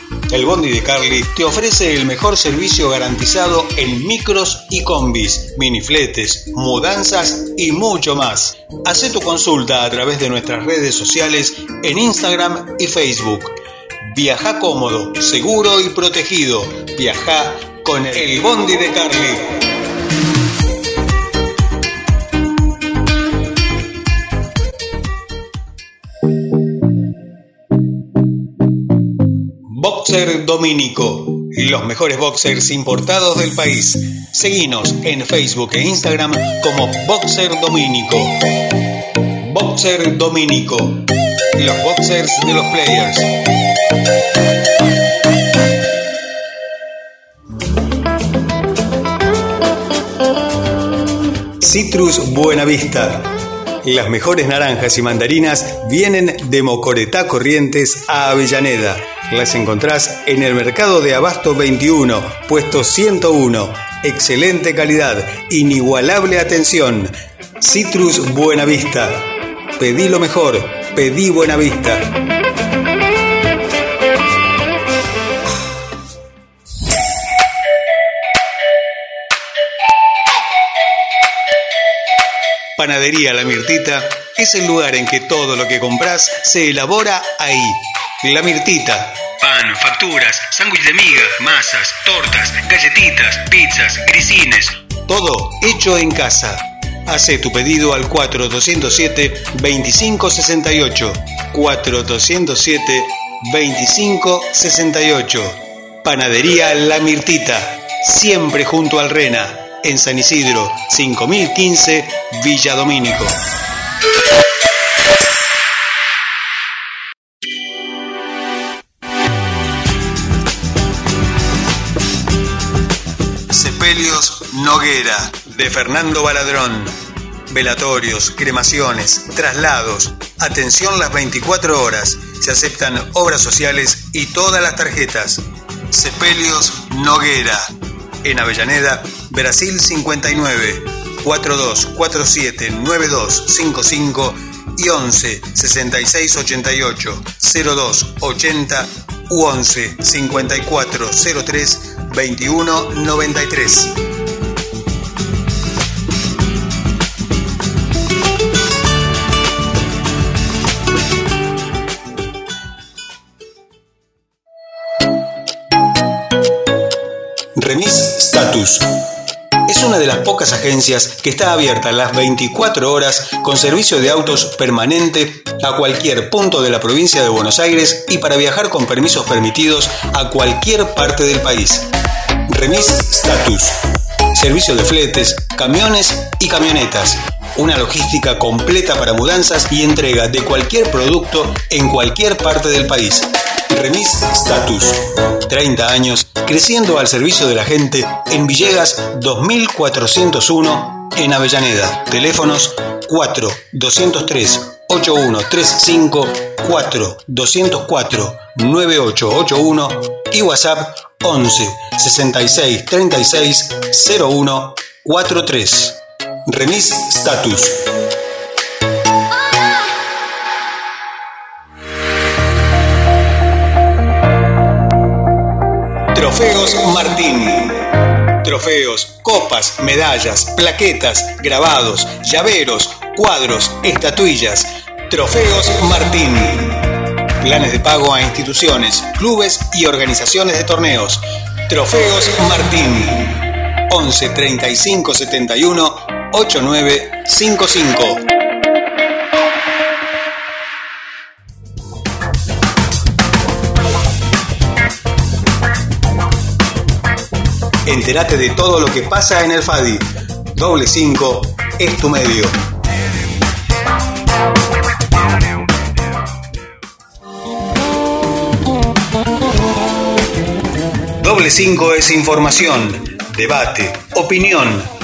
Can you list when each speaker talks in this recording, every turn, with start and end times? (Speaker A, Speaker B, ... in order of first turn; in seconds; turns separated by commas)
Speaker A: 0.3-13.5, Speaker A: 14.1-19.5, Speaker A: 29.7-38.3, Speaker A: 39.4-41.0, Speaker A: 41.6-43.3, Speaker A: 51.6-53.3, Speaker A: 53.8-72.1, Speaker A: 82.8-113.4, Speaker A: 123.5-126.9, Speaker A: 127.5-137.6, Speaker A: 138.2-154.0, Speaker A: 167.6-168.9, Speaker A: 169.7-181.9, Speaker A: 182.5-183.8, Speaker A: 184.3-217.8, Speaker A: 226.1-227.9, Speaker A: 228.4-236.9, Speaker A: 237.4-248.2, Speaker A: 257.9-262.5, Speaker A: 271.2-274.9